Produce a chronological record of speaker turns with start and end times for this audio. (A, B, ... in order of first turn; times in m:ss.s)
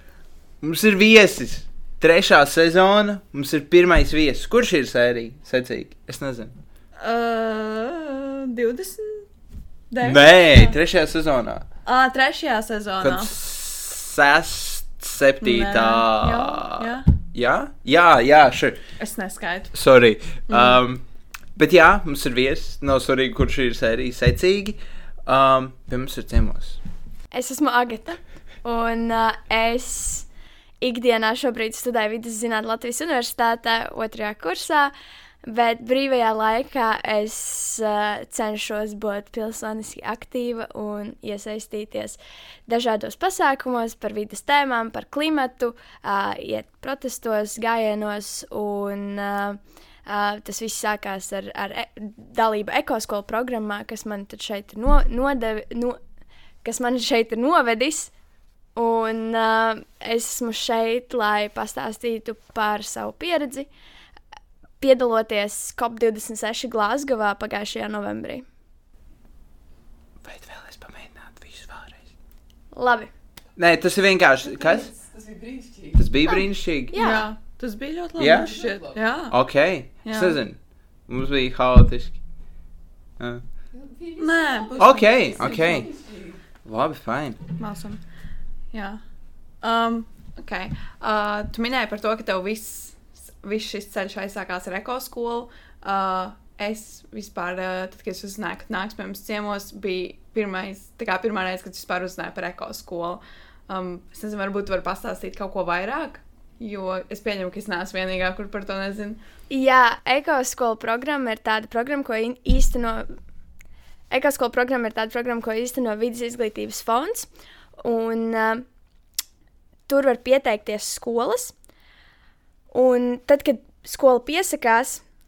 0:00.6-0:06.5 A
0:07.0-0:09.3 B
0:09.9-0:10.8 B
0:10.0-0:11.6 A
0:11.8-0:13.3 B
0:13.0-0:18.8 A
0:15.4-0:17.1 B
0:19.0-0:19.7 B
0:19.7-0:21.0 A
0:20.5-0:20.8 B
0:21.6-0:26.8 A
0:27.3-0:30.3 C
0:30.8-0:34.9 C
0:35.4-0:56.0 C
0:56.6-0:58.1 C
0:58.8-1:03.7 C
1:04.8-1:08.4 C
1:10.2-1:12.0 A
1:12.7-1:13.1 C
1:13.6-1:14.9 A
1:15.9-1:17.0 A
1:16.9-1:17.3 C
1:17.0-1:19.4 B
1:18.2-1:18.7 A
1:19.3-1:22.2 A
1:19.9-1:20.4 B
1:24.2-1:25.3 B
1:24.8-1:26.0 A
1:26.6-1:27.4 A
1:27.6-1:28.0 B
1:28.7-1:29.0 B
1:29.6-1:49.2 B
1:49.5-1:53.1 C
1:54.1-1:58.6 C
1:59.9-2:01.5 C
2:02.7-2:05.0 C